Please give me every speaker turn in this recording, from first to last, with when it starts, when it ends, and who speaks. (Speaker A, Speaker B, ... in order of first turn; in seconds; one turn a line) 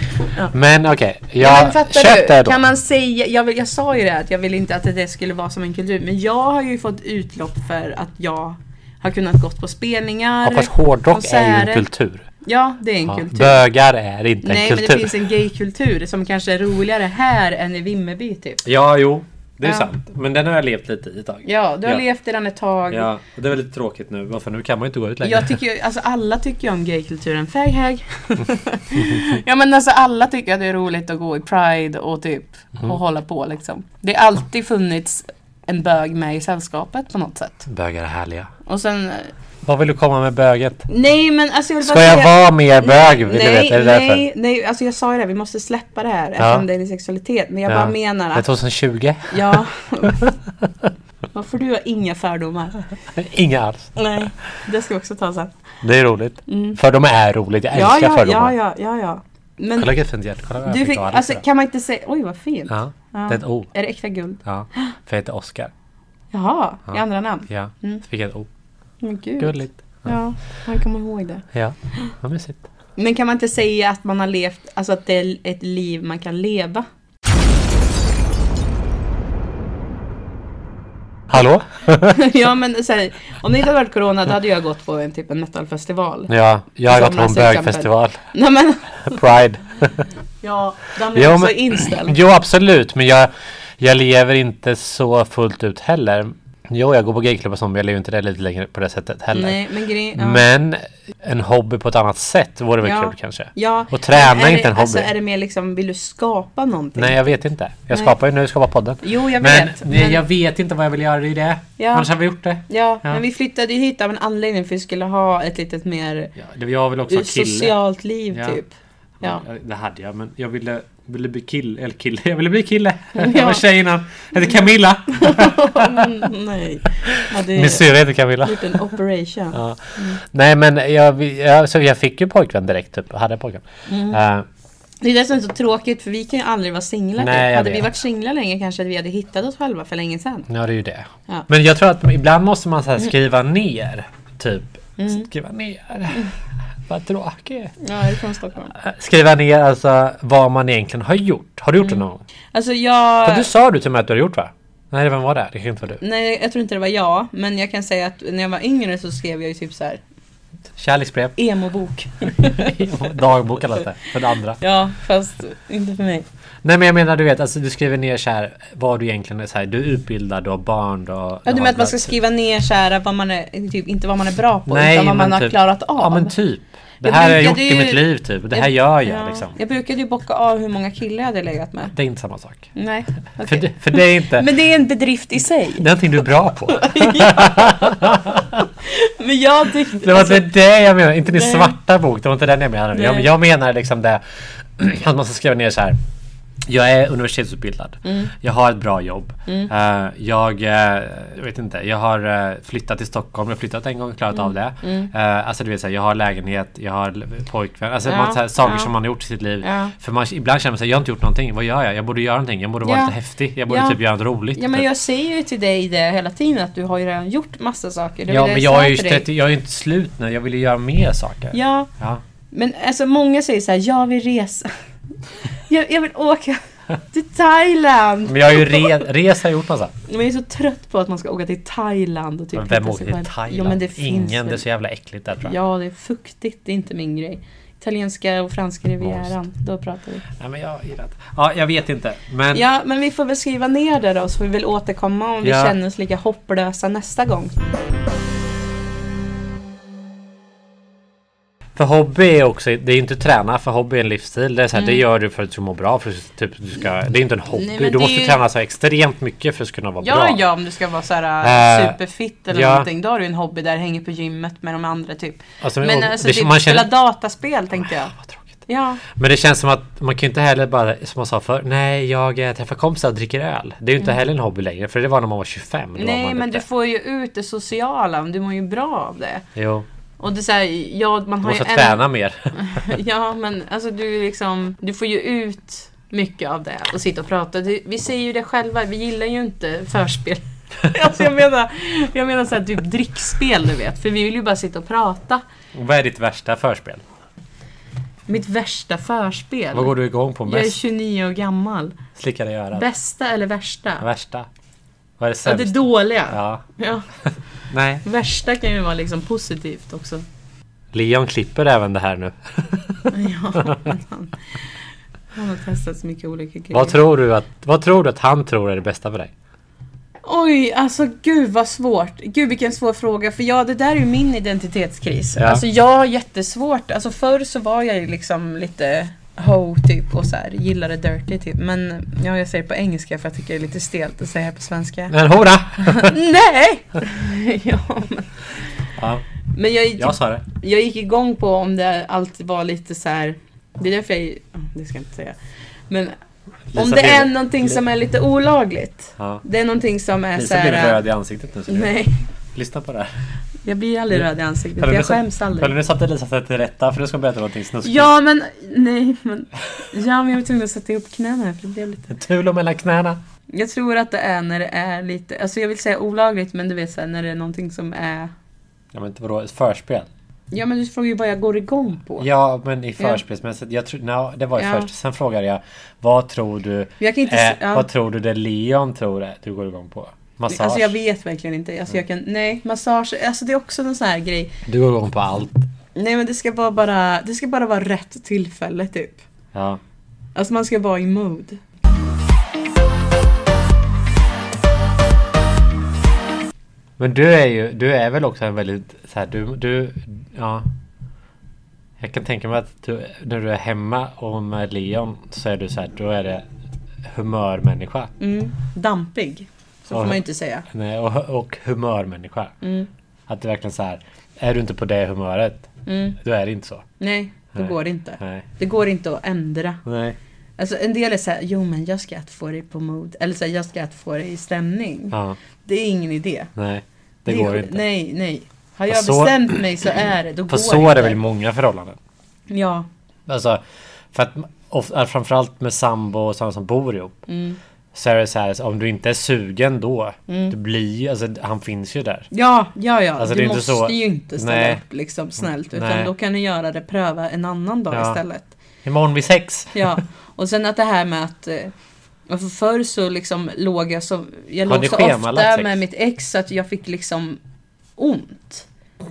Speaker A: 0.5-2.6
Speaker B: 1.4-11.8
Speaker A: 10.4-12.3
Speaker B: 12.4-13.6
Speaker A: 13.1-15.2
Speaker B: 14.4-18.6
Speaker A: 18.6-22.0
Speaker B: 21.4-23.1
Speaker A: 22.9-25.6
Speaker B: 25.2-37.6
Speaker A: 29.0-29.3
Speaker A: 37.6-38.5
Speaker B: 38.6-39.3
Speaker A: 39.6-40.9
Speaker B: 40.9-48.5
Speaker A: 41.8-44.2
Speaker A: 46.4-46.6
Speaker A: 47.7-50.7
Speaker B: 49.3-50.2
Speaker B: 51.3-52.8
Speaker A: 53.1-53.9
Speaker B: 54.0-55.5
Speaker A: 55.8-58.5
Speaker B: 56.5-56.8
Speaker B: 57.7-59.9
Speaker A: 59.8-61.4
Speaker B: 60.6-64.4
Speaker A: 62.7-63.7
Speaker A: 64.4-65.7
Speaker B: 66.3-68.0
Speaker A: 66.9-68.5
Speaker B: 69.0-71.4
Speaker A: 69.4-70.1
Speaker A: 71.5-72.7
Speaker B: 73.0-76.8
Speaker A: 81.3-82.2
Speaker B: 82.0-86.3
Speaker A: 86.3-88.2
Speaker B: 86.8-89.2
Speaker A: 89.0-90.1
Speaker B: 90.4-92.2
Speaker A: 91.1-99.6
Speaker B: 99.3-100.4
Speaker A: 100.1-105.1
Speaker B: 102.8-107.3
Speaker A: 107.0-113.2
Speaker B: 109.0-110.2
Speaker B: 111.8-112.1
Speaker B: 112.7-116.3
Speaker A: 116.3-117.8
Speaker B: 117.1-118.7
Speaker A: 118.3-118.6
Speaker A: 119.2-126.2
Speaker B: 123.1-123.6
Speaker B: 125.1-130.2
Speaker A: 127.1-128.8
Speaker A: 129.5-134.4
Speaker B: 133.9-134.2
Speaker B: 135.0-140.5
Speaker A: 137.2-137.9
Speaker A: 140.5-146.3
Speaker B: 145.0-145.3
Speaker A: 146.9-147.7
Speaker B: 147.8-148.7
Speaker A: 148.7-152.2
Speaker B: 151.8-153.5
Speaker A: 153.2-156.0
Speaker B: 156.0-160.0
Speaker A: 160.8-161.4
Speaker B: 161.4-162.8
Speaker A: 162.3-164.6
Speaker B: 164.6-166.2
Speaker A: 166.6-172.1
Speaker B: 171.4-176.3
Speaker A: 174.7-179.6
Speaker B: 177.0-181.9
Speaker A: 181.9-182.7
Speaker B: 182.7-185.9
Speaker A: 183.4-184.5
Speaker A: 185.8-188.6
Speaker B: 186.7-190.5
Speaker A: 190.0-194.2
Speaker B: 191.3-191.7
Speaker B: 192.9-193.3
Speaker A: 194.8-196.0
Speaker A: 196.7-214.8
Speaker B: 198.0-198.3
Speaker B: 204.3-205.1
Speaker B: 208.1-208.9
Speaker B: 209.6-209.9
Speaker B: 212.8-213.1
Speaker B: 213.7-214.0
Speaker B: 214.5-219.3
Speaker A: 218.3-222.2
Speaker B: 221.5-221.9
Speaker B: 222.5-224.7
Speaker B: 225.7-229.0
Speaker A: 228.2-229.9
Speaker B: 230.1-234.6
Speaker A: 232.5-235.5
Speaker B: 235.4-240.2
Speaker A: 239.0-239.3
Speaker A: 240.3-242.6
Speaker B: 242.5-247.6
Speaker A: 245.4-245.7
Speaker A: 251.8-260.4
Speaker B: 254.7-255.0
Speaker B: 257.5-258.4
Speaker B: 260.0-268.1
Speaker A: 261.4-262.0
Speaker A: 262.5-262.9
Speaker A: 265.6-266.9
Speaker A: 268.1-276.6
Speaker B: 268.7-269.0
Speaker B: 275.9-279.4
Speaker A: 279.6-279.9
Speaker B: 280.2-282.0
Speaker A: 281.4-282.5
Speaker B: 282.5-295.4
Speaker A: 295.7-297.0
Speaker B: 298.3-301.9
Speaker A: 299.7-300.8
Speaker A: 302.1-302.9
Speaker B: 302.7-304.1
Speaker A: 304.0-304.5
Speaker A: 305.2-306.6
Speaker B: 305.4-307.1
Speaker A: 307.7-308.0
Speaker B: 308.0-310.2
Speaker A: 310.9-313.9
Speaker B: 313.1-314.4
Speaker B: 315.3-317.0
Speaker A: 316.7-319.3
Speaker B: 320.2-335.1
Speaker A: 325.4-325.6
Speaker A: 335.1-336.1
Speaker B: 335.8-338.3
Speaker A: 339.0-339.2
Speaker B: 339.5-345.4
Speaker A: 340.0-340.4
Speaker B: 345.9-346.1
Speaker A: 346.7-347.8
Speaker B: 346.7-351.0
Speaker A: 349.2-349.4
Speaker A: 350.3-351.9
Speaker B: 351.7-352.2
Speaker A: 352.5-353.1
Speaker B: 353.6-355.7
Speaker A: 354.8-358.1
Speaker B: 357.8-362.1
Speaker A: 362.1-363.2
Speaker B: 363.5-368.3
Speaker A: 368.9-370.1
Speaker B: 370.5-372.3
Speaker A: 372.2-380.9
Speaker B: 374.6-374.9
Speaker B: 377.0-377.9
Speaker B: 380.5-384.6
Speaker A: 384.6-385.7
Speaker B: 385.9-389.2
Speaker A: 389.5-389.8
Speaker B: 390.3-391.6
Speaker A: 397.0-400.7
Speaker A: 402.0-406.4
Speaker A: 407.0-408.1
Speaker B: 408.2-410.6
Speaker A: 409.9-412.5
Speaker B: 412.6-412.9
Speaker A: 413.3-416.9
Speaker B: 415.9-416.2
Speaker B: 417.0-419.8
Speaker A: 417.5-418.5
Speaker A: 419.8-420.2
Speaker B: 420.6-426.5
Speaker A: 425.1-425.4
Speaker A: 426.6-427.8
Speaker B: 427.3-431.2
Speaker A: 428.9-429.5
Speaker A: 430.5-432.0
Speaker B: 432.5-432.9
Speaker A: 433.3-433.6
Speaker A: 434.1-437.2
Speaker B: 437.3-437.6
Speaker A: 437.9-442.3
Speaker B: 440.3-440.5
Speaker B: 442.3-448.5
Speaker A: 443.2-444.8
Speaker A: 445.7-446.1
Speaker A: 447.9-448.2
Speaker A: 448.8-449.9
Speaker B: 449.7-451.7
Speaker B: 452.3-457.4
Speaker A: 454.6-455.8
Speaker B: 458.0-458.6